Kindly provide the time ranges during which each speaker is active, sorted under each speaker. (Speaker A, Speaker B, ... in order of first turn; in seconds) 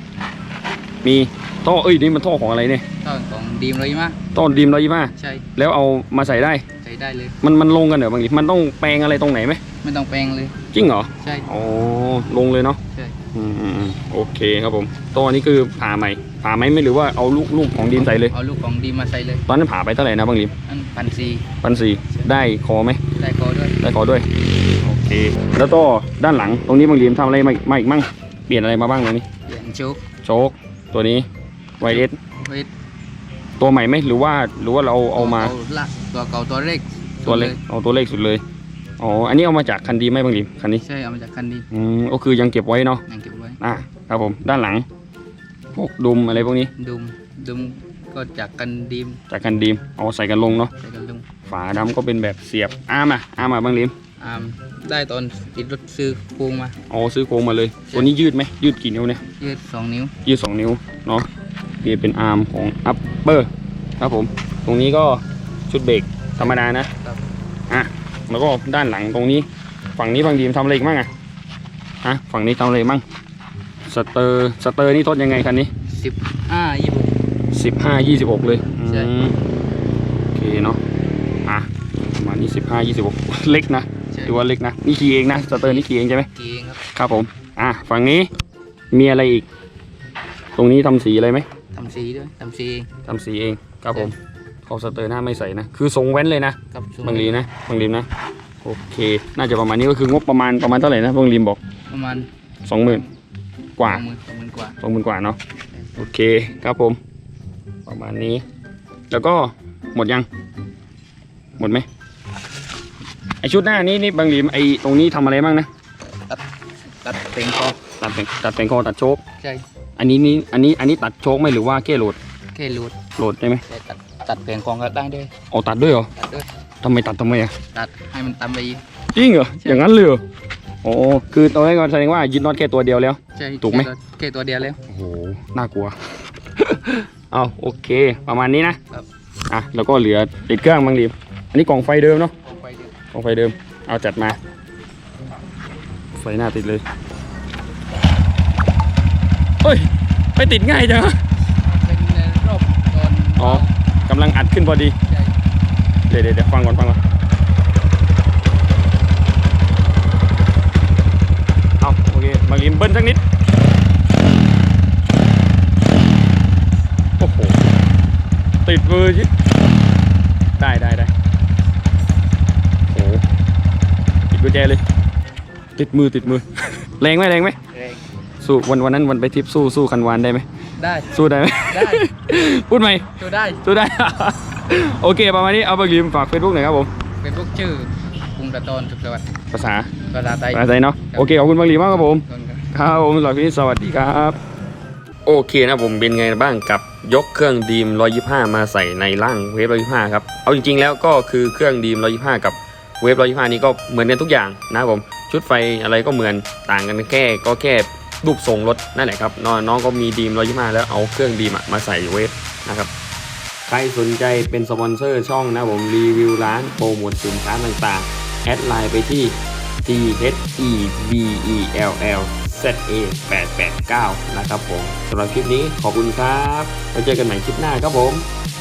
Speaker A: 1.0-2.8, 4.3-6.7, 7.4-9.6, 10.7-12.8, 13.3-18.3, 19.5-20.5, 21.6-23.0, 23.8-24.3, 24.8-29.2, 30.2-31.3, 31.8-32.2, 33.6-35.5, 37.2-38.4, 39.0-40.8, 41.7-43.0, 43.6-44.9, 45.7-46.7, 49.3-50.7, 51.5-53.9, 56.9-59.2, 60.2-61.3, 61.8-66.9, 67.7-71.1, 72.0-73.0, 73.9-75.7, 77.5-79.4, 80.3-80.8, 81.5-86.3, 86.9-88.3, 88.9-89.5, 90.6-91.5, 93.0-94.1, 94.7-98.1, 98.6-101.6, 102.7-103.0, 103.8-104.0, 104.8-105.4, 106.0-107.0, 107.9-108.4, 109.1-110.3, 111.6-111.9, 113.4-115.7, 118.0-119.2, 120.0-122.2, 123.2-123.6, 125.5-126.1, 126.8-127.5, 129.1-130.2, 130.8-133.9, 134.9-135.9, 136.6-138.8, 139.5-142.3, 143.1-144.4, 146.1-146.8, 149.6-151.2, 153.4-154.9, 156.1-157.0, 161.8-163.2, 167.2-167.6, 168.6-169.3, 170.6-171.1, 172.9-173.2, 174.3-174.8, 175.8-177.6, 178.4-180.4, 181.1-186.9, 189.5-189.9, 190.5-194.4, 195.2-212.9, 213.7-228.3
Speaker B: 3.0-4.2, 5.2-5.4, 6.8-7.4, 9.8-10.6, 11.2-11.5, 12.9-13.2, 17.9-19.4, 20.6-21.5, 23.2-23.8, 29.4-30.0, 31.8-32.7, 35.2-37.6, 40.8-41.7, 43.1-43.6, 46.8-49.2, 50.8-51.2, 54.2-56.8, 59.4-60.1, 66.4-67.2, 75.9-77.2, 78.8-79.1, 84.1-84.4, 85.3-86.8, 91.7-92.9, 96.7-97.4, 101.9-102.3, 102.8-103.1, 103.8-104.8, 116.3-117.8, 119.4-119.6, 122.5-123.0, 123.7-125.3, 126.2-126.5, 127.7-128.8, 133.3-134.8, 142.4-142.9, 151.6-153.7, 155.1-155.3, 180.8-182.1, 183.2-183.6, 187.2-189.3, 190.1-191.4, 192.1-192.7